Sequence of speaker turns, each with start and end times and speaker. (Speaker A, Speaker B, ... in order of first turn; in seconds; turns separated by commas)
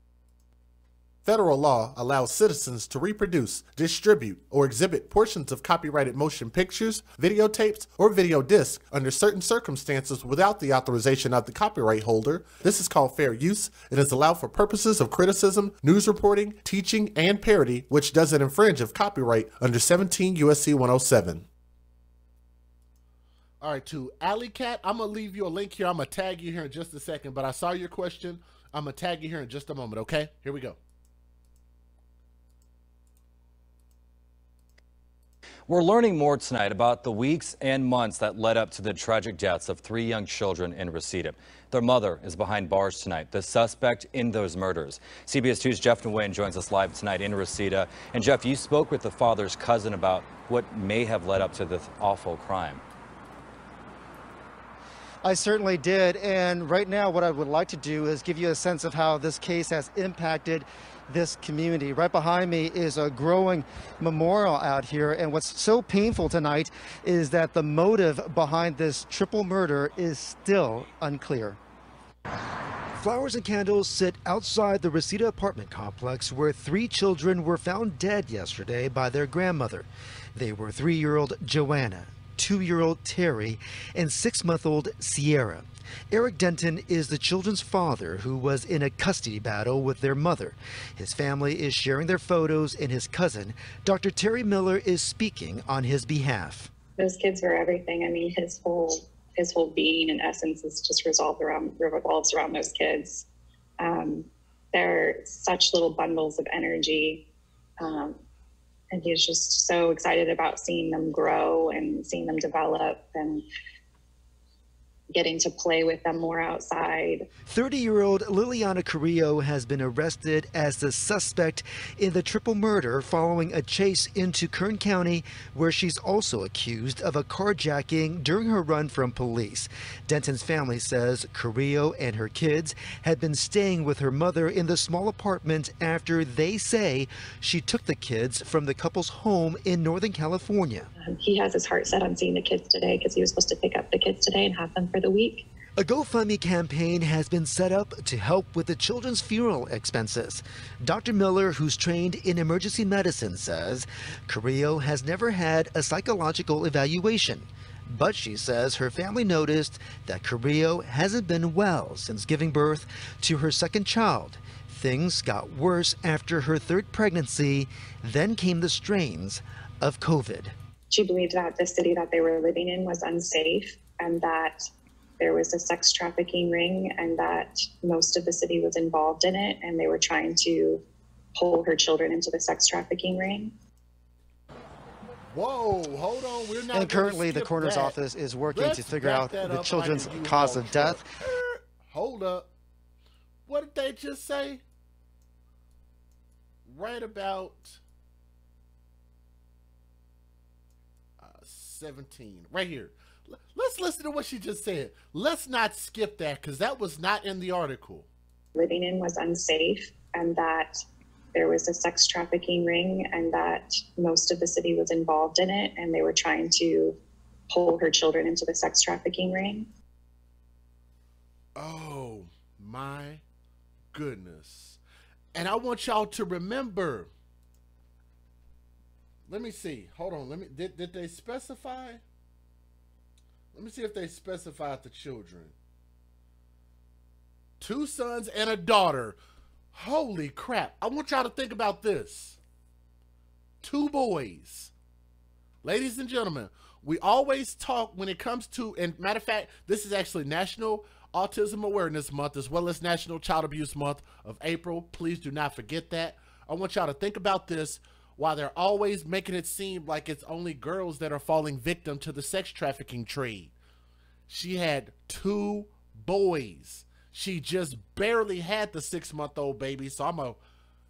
Speaker A: 1.2-21.5, Speaker A: 23.6-30.8, Speaker B: 35.7-52.8, Speaker C: 55.2-71.6, Speaker C: 73.0-96.7, Speaker D: 97.0-103.3, Speaker D: 103.8-107.3, Speaker D: 107.8-108.2, Speaker D: 108.9-113.5, Speaker D: 115.1-117.3, Speaker C: 117.5-140.9, Speaker D: 141.1-145.5, Speaker C: 145.8-170.5, Speaker D: 170.9-174.7, Speaker D: 175.2-180.8, Speaker D: 181.3-183.5, Speaker A: 185.3-188.0, Speaker C: 186.7-191.1, Speaker A: 188.5-192.5, Speaker A: 193.5-194.6, Speaker A: 196.7-197.8, Speaker A: 201.2-208.1, Speaker D: 208.6-210.8, Speaker D: 211.3-217.0, Speaker D: 217.5-219.7, Speaker A: 221.6-223.2, Speaker A: 223.9-224.8, Speaker A: 225.3-227.1, Speaker A: 229.3-232.0, Speaker A: 233.5-235.5, Speaker A: 237.6-239.2, Speaker A: 239.7-242.4, Speaker A: 243.6-244.7, Speaker A: 245.6-263.5, Speaker A: 264.3-270.4